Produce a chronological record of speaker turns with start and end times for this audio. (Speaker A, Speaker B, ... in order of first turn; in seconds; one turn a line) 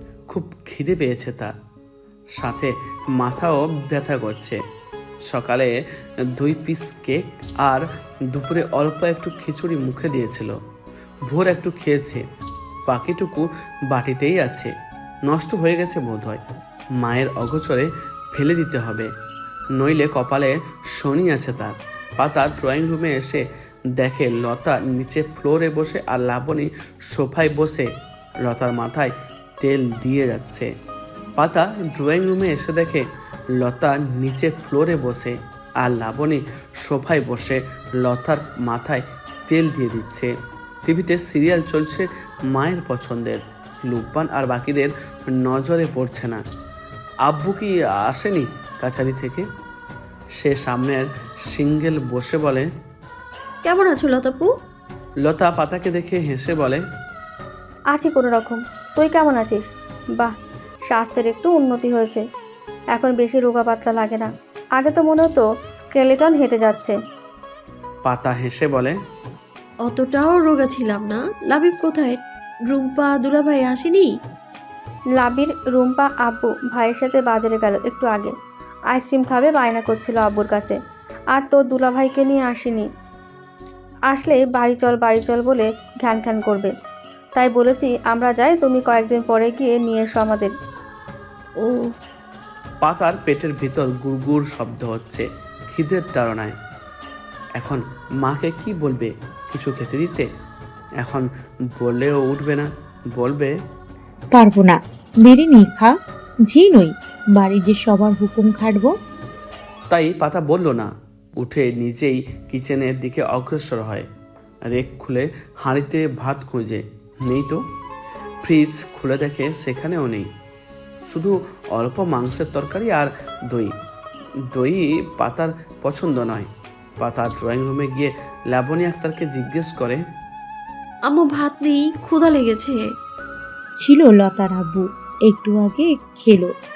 Speaker A: 0.3-1.5
Speaker A: 2.4-4.6
Speaker A: 5.3-5.7
Speaker A: 6.3-10.6
Speaker A: 11.3-12.2
Speaker A: 12.8-14.7
Speaker A: 15.2-16.4
Speaker A: 17.0-19.1
Speaker A: 19.7-30.7
Speaker A: 31.4-46.4
Speaker A: 47.2-49.5
Speaker A: 50.4-52.7
Speaker B: 53.6-54.5
Speaker A: 55.2-56.8
Speaker C: 57.9-60.4
Speaker C: 60.9-62.2
Speaker C: 62.9-67.0
Speaker A: 68.0-69.0
Speaker B: 69.8-74.1
Speaker C: 75.1-78.3
Speaker C: 78.9-80.8
Speaker C: 81.3-82.9
Speaker C: 84.1-86.7
Speaker C: 87.3-90.5
Speaker B: 91.6-91.9
Speaker A: 92.8-96.5
Speaker A: 97.5-100.3
Speaker A: 101.0-103.5
Speaker D: 104.3-105.9
Speaker D: 106.5-108.9
Speaker A: 109.9-114.1
Speaker A: 114.6-117.6
Speaker A: 118.4-120.3
Speaker A: 121.1-123.7
Speaker A: 124.5-130.0
Speaker B: 131.1-132.9
Speaker D: 133.8-136.5